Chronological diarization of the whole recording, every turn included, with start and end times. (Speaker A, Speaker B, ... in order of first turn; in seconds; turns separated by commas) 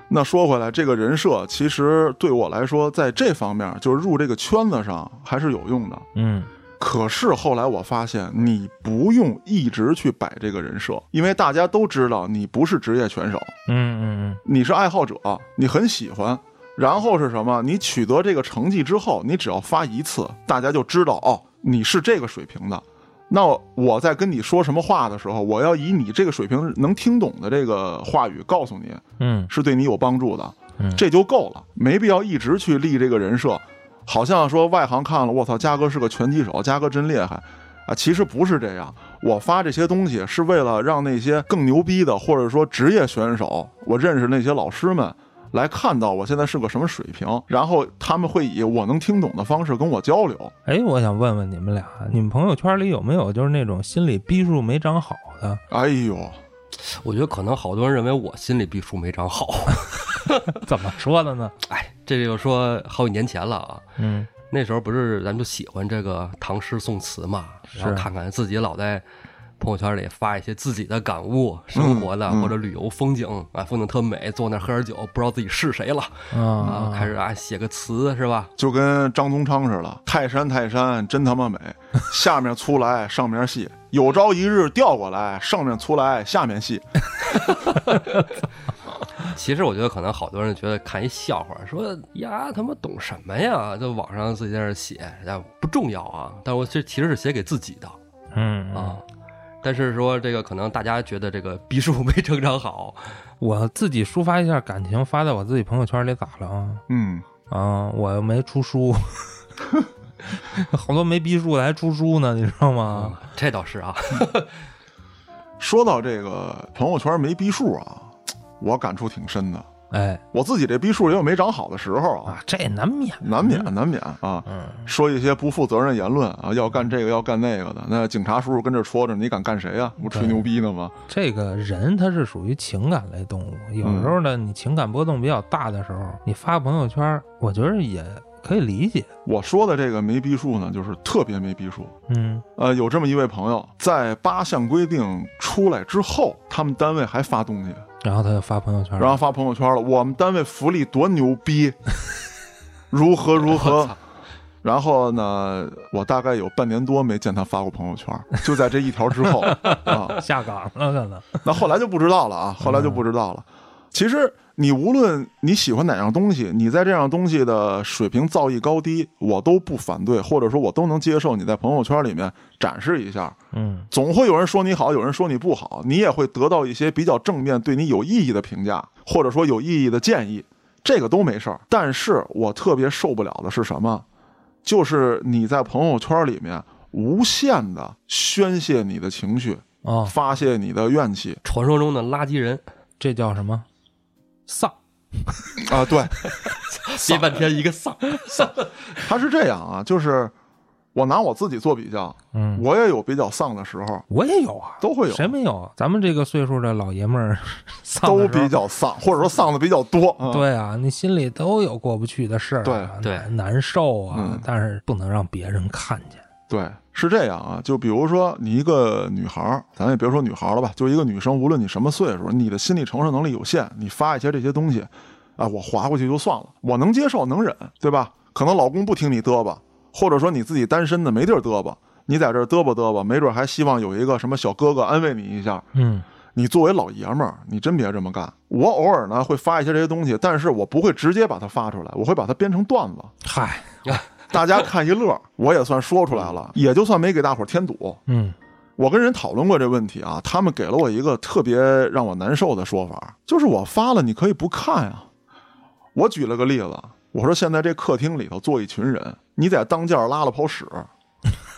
Speaker A: 0.1-6.0, Speaker B: 6.1-6.5, Speaker A: 6.8-13.5, Speaker B: 13.7-14.4, Speaker A: 14.4-50.5, Speaker B: 29.2-29.5, Speaker B: 50.6-55.6, Speaker A: 55.7-56.4, Speaker C: 56.8-60.6, Speaker B: 60.5-61.5, Speaker C: 61.6-63.8, Speaker B: 64.0-64.3, Speaker C: 64.5-69.0, Speaker B: 67.7-68.1, Speaker C: 69.6-78.5, Speaker A: 71.7-72.5, Speaker B: 76.3-77.1, Speaker A: 78.6-86.8, Speaker C: 89.2-98.0, Speaker B: 98.3-99.0, Speaker C: 98.7-99.0, Speaker C: 99.6-103.1, Speaker B: 103.4-106.8, Speaker A: 106.9-107.2, Speaker B: 107.5-109.3, Speaker B: 110.3-113.2, Speaker C: 112.9-114.7, Speaker A: 115.6-119.7, Speaker B: 119.9-120.2, Speaker A: 120.3-122.4, Speaker B: 122.3-123.7, Speaker A: 123.2-130.9, Speaker B: 124.5-124.9, Speaker B: 130.1-130.4, Speaker B: 131.1-139.1, Speaker A: 133.8-134.2, Speaker A: 139.2-141.9, Speaker B: 142.1-142.4, Speaker A: 142.6-147.8, Speaker B: 148.0-149.2, Speaker A: 149.0-151.8, Speaker A: 152.9-153.9, Speaker C: 153.5-153.9, Speaker A: 154.6-160.2, Speaker B: 159.4-161.4, Speaker A: 161.4-173.3, Speaker B: 162.6-163.0, Speaker B: 173.5-173.9, Speaker A: 173.9-184.0, Speaker A: 184.6-191.4, Speaker B: 189.8-190.1, Speaker C: 191.4-192.6, Speaker B: 193.0-193.7, Speaker B: 194.5-195.7, Speaker A: 195.6-196.2, Speaker C: 196.7-199.0, Speaker A: 197.0-197.4, Speaker A: 199.0-200.3, Speaker A: 200.9-204.1, Speaker B: 202.3-202.6, Speaker B: 204.1-208.5, Speaker A: 204.8-205.3, Speaker A: 208.0-210.4, Speaker B: 210.3-216.2, Speaker A: 212.6-212.9, Speaker C: 213.0-213.3, Speaker A: 214.1-214.4, Speaker A: 216.5-235.7, Speaker B: 235.7-236.0, Speaker A: 236.3-243.1, Speaker B: 243.2-243.7, Speaker A: 244.3-248.0, Speaker B: 248.1-248.3, Speaker A: 248.8-255.1, Speaker A: 255.9-260.9